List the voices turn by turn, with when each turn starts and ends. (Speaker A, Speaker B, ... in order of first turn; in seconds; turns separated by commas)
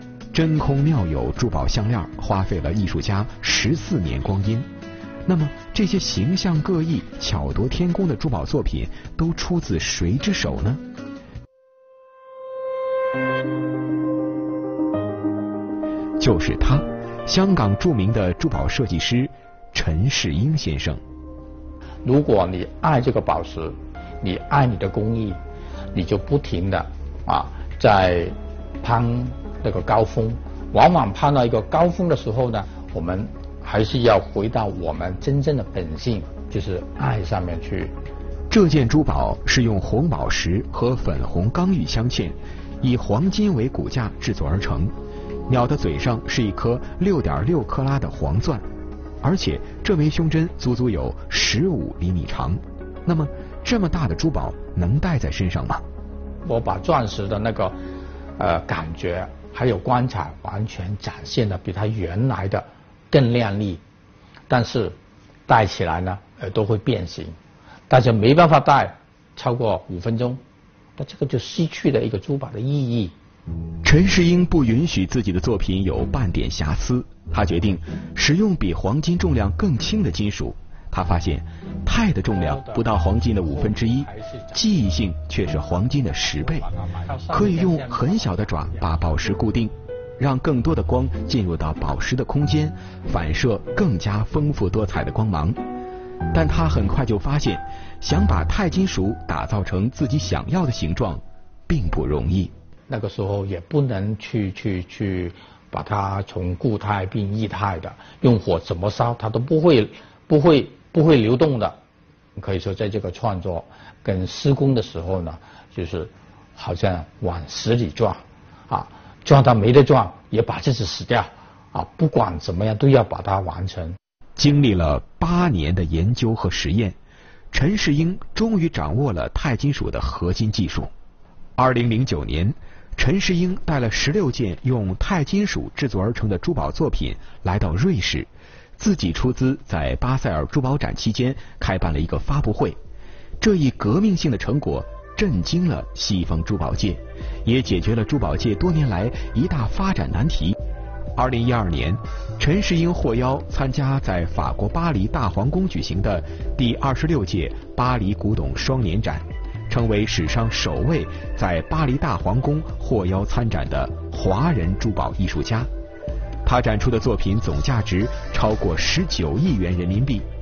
Speaker A: 0.3-4.7, Speaker A: 5.3-10.8, Speaker A: 16.2-21.0, Speaker B: 22.0-25.4, Speaker B: 25.9-37.9, Speaker A: 38.5-44.9, Speaker A: 45.5-48.6, Speaker A: 49.2-55.8, Speaker B: 56.5-57.8, Speaker B: 58.4-63.8, Speaker B: 64.5-65.0, Speaker B: 65.5-67.4, Speaker B: 67.9-70.4, Speaker B: 71.0-73.1, Speaker A: 73.8-86.7, Speaker B: 83.8-84.5, Speaker B: 86.9-88.4, Speaker A: 87.3-95.6, Speaker A: 96.3-102.5, Speaker B: 102.9-111.8, Speaker B: 112.4-124.0, Speaker A: 124.4-127.0, Speaker A: 127.5-130.9, Speaker A: 131.6-142.8, Speaker A: 143.4-150.6, Speaker A: 151.2-165.7, Speaker A: 166.4-170.3